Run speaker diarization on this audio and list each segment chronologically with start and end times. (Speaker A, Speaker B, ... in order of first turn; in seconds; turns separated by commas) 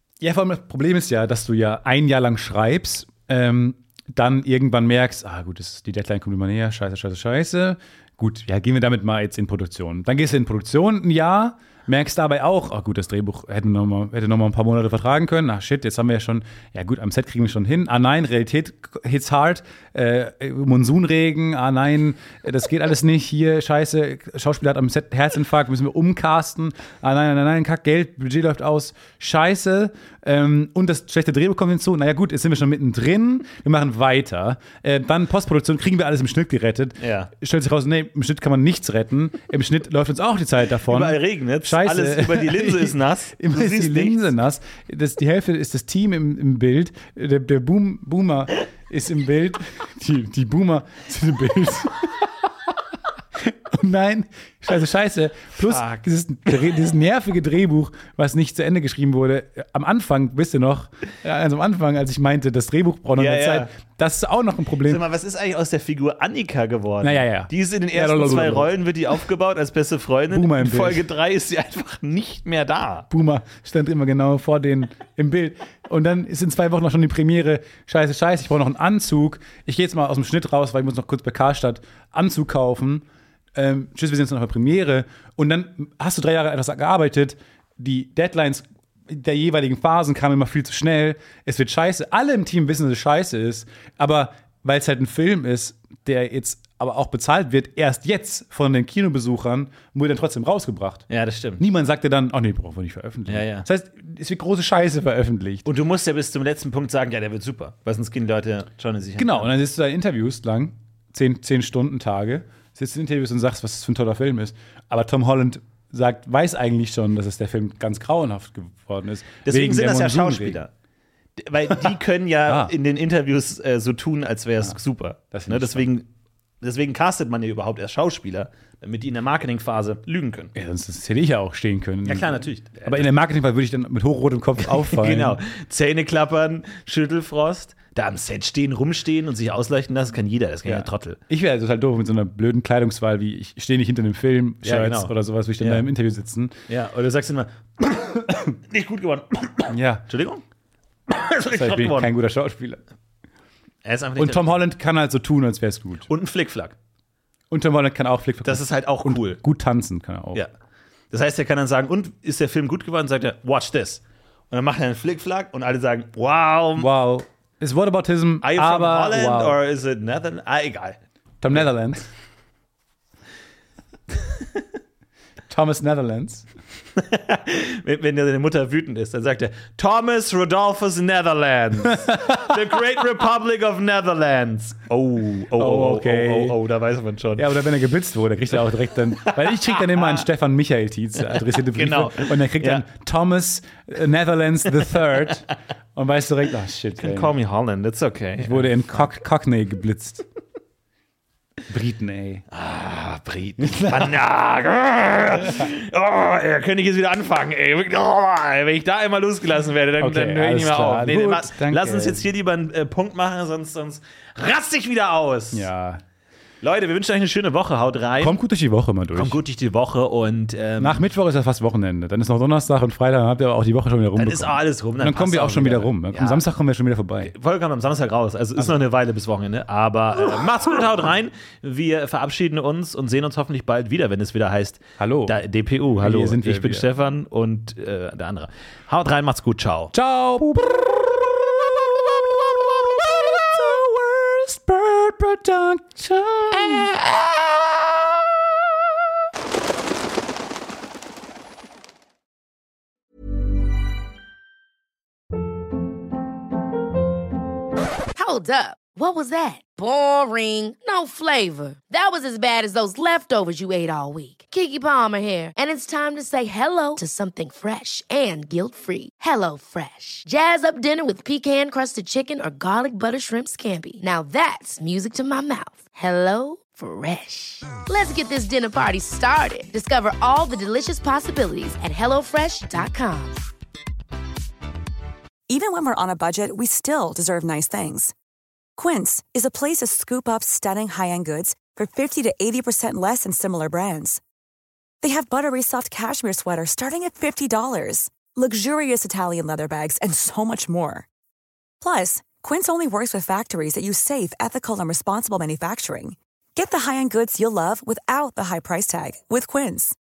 Speaker A: 0.2-52.5, Speaker B: 37.0-37.3, Speaker B: 40.9-44.3, Speaker A: 53.4-65.0, Speaker B: 55.7-56.0, Speaker B: 63.1-63.7, Speaker B: 64.8-73.1, Speaker A: 67.0-68.7, Speaker A: 70.3-71.0, Speaker A: 73.1-101.1, Speaker B: 101.1-101.6, Speaker A: 101.6-105.7, Speaker B: 103.3-103.7, Speaker B: 105.7-109.5, Speaker A: 109.2-120.6, Speaker B: 119.4-120.7, Speaker B: 121.4-126.1, Speaker A: 122.5-122.7, Speaker A: 124.6-125.9, Speaker B: 126.6-130.5, Speaker A: 130.5-135.4, Speaker B: 132.0-133.1, Speaker B: 134.8-141.2, Speaker A: 140.6-146.6, Speaker B: 144.6-145.8, Speaker B: 146.7-150.4, Speaker A: 149.7-150.1, Speaker B: 151.1-152.1, Speaker A: 151.5-152.8, Speaker B: 153.8-154.6, Speaker A: 154.2-156.1, Speaker B: 156.1-156.7, Speaker A: 157.5-160.4, Speaker B: 158.4-159.4, Speaker B: 161.1-166.9, Speaker A: 166.8-169.6, Speaker B: 168.4-171.0, Speaker A: 171.4-172.1, Speaker A: 175.5-176.5, Speaker B: 177.0-187.5, Speaker A: 182.0-182.4, Speaker A: 185.6-186.6, Speaker A: 187.3-197.3, Speaker B: 189.4-190.2, Speaker B: 191.3-192.8, Speaker B: 197.0-199.1, Speaker A: 198.4-200.2, Speaker A: 201.7-202.4, Speaker B: 202.5-215.7, Speaker A: 203.6-204.2, Speaker A: 210.0-212.2, Speaker A: 215.5-216.0, Speaker B: 216.6-218.4, Speaker A: 218.2-219.4, Speaker B: 219.1-221.0, Speaker A: 220.8-227.3, Speaker B: 224.2-226.4, Speaker B: 227.2-239.9, Speaker A: 235.0-235.4, Speaker A: 236.0-236.9, Speaker A: 239.9-248.7, Speaker C: 258.1-283.4, Speaker D: 285.5-288.1, Speaker D: 288.8-294.2, Speaker D: 295.0-301.1, Speaker D: 301.8-309.9